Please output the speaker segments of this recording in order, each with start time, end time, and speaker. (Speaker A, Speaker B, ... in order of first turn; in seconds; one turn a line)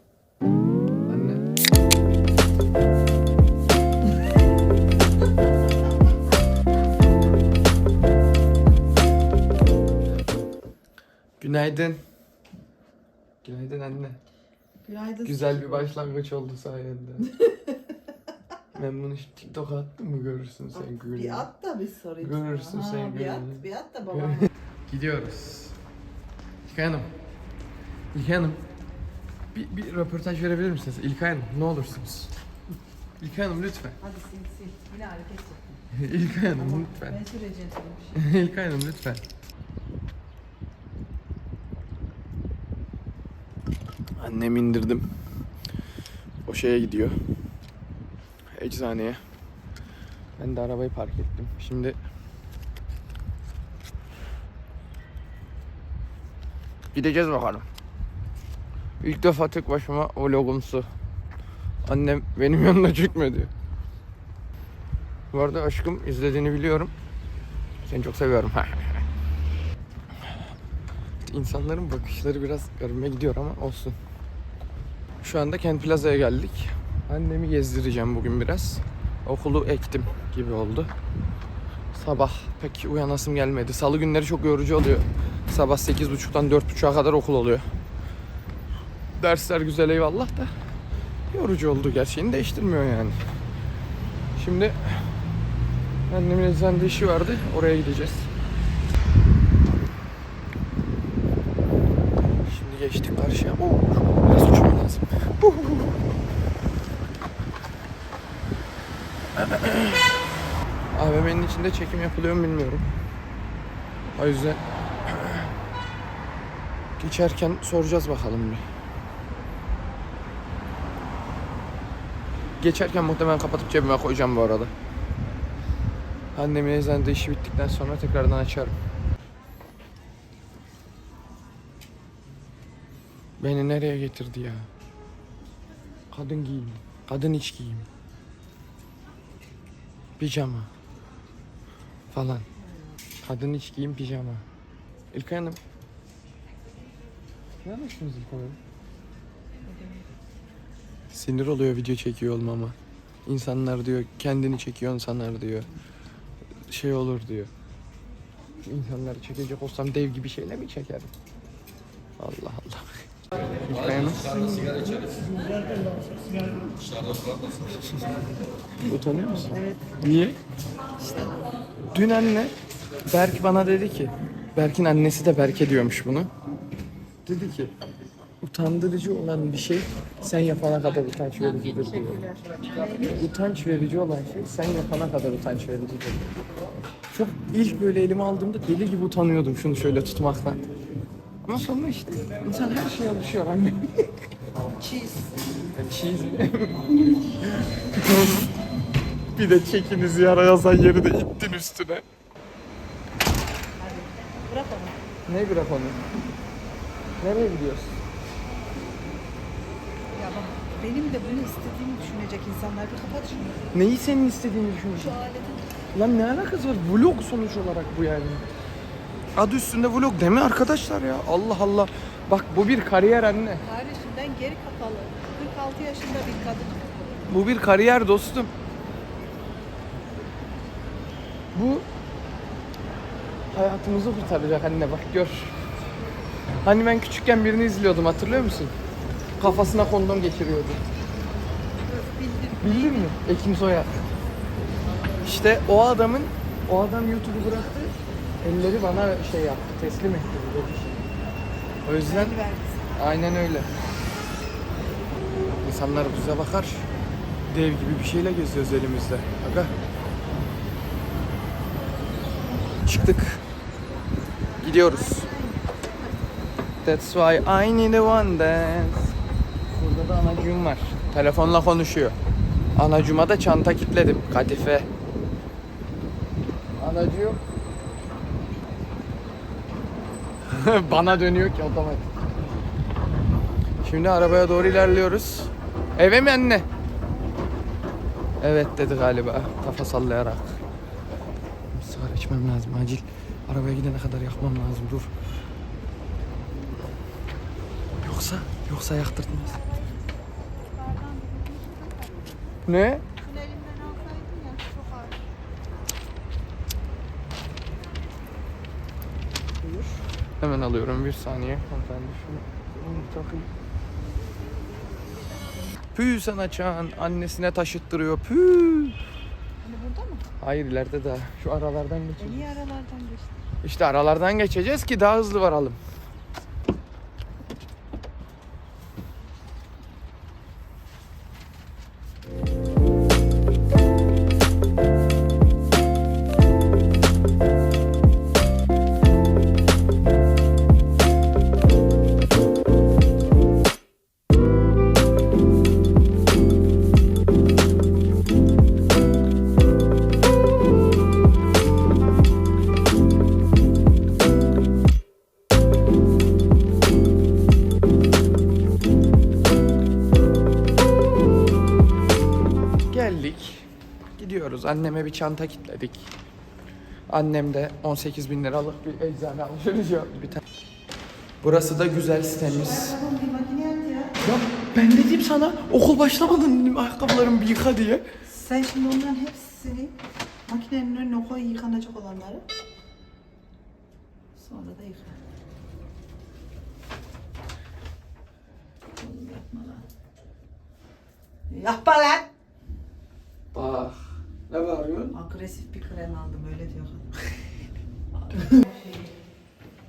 Speaker A: 1.1-1.5
Speaker A: 11.4-12.0
Speaker A: 13.4-14.2
Speaker B: 14.8-15.8
Speaker A: 15.2-17.4
Speaker A: 18.7-21.5
Speaker B: 20.8-24.5
Speaker A: 22.2-25.8
Speaker A: 26.6-27.1
Speaker A: 28.1-28.6
Speaker A: 29.5-32.3
Speaker A: 33.2-34.0
Speaker B: 34.0-38.2
Speaker A: 35.9-37.2
Speaker A: 38.1-39.2
Speaker A: 44.2-45.0
Speaker A: 46.5-47.2
Speaker A: 48.5-49.2
Speaker A: 50.4-52.0
Speaker A: 56.9-57.7
Speaker A: 59.0-60.9
Speaker A: 61.9-63.5
Speaker A: 65.3-66.9
Speaker A: 67.8-69.0
Speaker A: 71.2-74.0
Speaker A: 75.2-80.9
Speaker A: 81.9-87.7
Speaker A: 89.1-90.5
Speaker A: 91.3-93.2
Speaker A: 94.3-95.2
Speaker A: 96.1-98.3
Speaker A: 102.5-105.9
Speaker A: 109.4-110.1
Speaker A: 110.9-112.9
Speaker A: 114.1-115.4
Speaker A: 117.0-118.6
Speaker A: 122.6-124.7
Speaker A: 126.3-128.8
Speaker A: 133.4-134.7
Speaker A: 136.1-137.9
Speaker A: 140.2-140.7
Speaker A: 142.1-142.5
Speaker A: 143.2-144.4
Speaker A: 145.1-145.6
Speaker A: 147.6-148.6
Speaker B: 149.7-150.1
Speaker A: 151.1-155.7
Speaker A: 156.7-157.5
Speaker A: 158.6-161.1
Speaker A: 162.2-163.0
Speaker A: 163.7-164.4
Speaker A: 168.8-170.4
Speaker B: 169.5-169.8
Speaker A: 171.9-172.5
Speaker A: 173.1-176.3
Speaker A: 177.2-177.7
Speaker A: 178.4-182.3
Speaker B: 182.7-183.1
Speaker A: 183.0-186.2
Speaker A: 187.1-190.6
Speaker A: 191.4-194.1
Speaker B: 194.8-195.2
Speaker A: 195.7-196.8
Speaker A: 197.9-198.5
Speaker A: 199.3-202.0
Speaker B: 203.8-204.9
Speaker A: 205.3-206.0
Speaker A: 207.2-208.0
Speaker B: 210.1-213.6
Speaker A: 213.7-215.2
Speaker B: 215.1-215.6
Speaker A: 215.9-218.5
Speaker A: 219.3-223.6
Speaker B: 223.6-227.2
Speaker A: 227.3-228.5
Speaker A: 231.5-231.9
Speaker A: 233.5-235.6
Speaker A: 236.6-238.7
Speaker A: 239.4-240.8
Speaker B: 241.9-243.1
Speaker A: 242.6-243.9
Speaker A: 245.2-251.1
Speaker A: 251.8-252.4
Speaker B: 252.0-252.9
Speaker A: 252.9-253.7
Speaker A: 255.6-256.9
Speaker A: 257.4-259.7
Speaker A: 262.8-263.4
Speaker A: 264.6-265.4
Speaker A: 266.8-269.1
Speaker A: 269.7-272.1
Speaker A: 272.8-274.9
Speaker A: 276.8-277.4
Speaker A: 280.4-282.1
Speaker A: 283.8-286.6
Speaker A: 288.4-290.6
Speaker A: 291.7-295.1
Speaker A: 298.0-299.7
Speaker B: 300.7-302.2
Speaker A: 302.6-303.1
Speaker B: 303.2-305.2
Speaker A: 309.6-313.5
Speaker A: 315.9-319.0
Speaker B: 319.6-320.2
Speaker A: 320.4-322.6
Speaker B: 322.2-323.4
Speaker A: 323.6-325.8
Speaker A: 362.9-366.1
Speaker A: 367.1-370.4
Speaker A: 371.4-373.0
Speaker B: 372.6-374.2
Speaker A: 374.2-378.0
Speaker B: 378.2-379.9
Speaker B: 380.5-382.4
Speaker B: 384.4-385.2
Speaker B: 388.9-389.9
Speaker B: 391.5-392.3
Speaker A: 393.5-395.2
Speaker B: 395.1-397.1
Speaker B: 398.2-399.0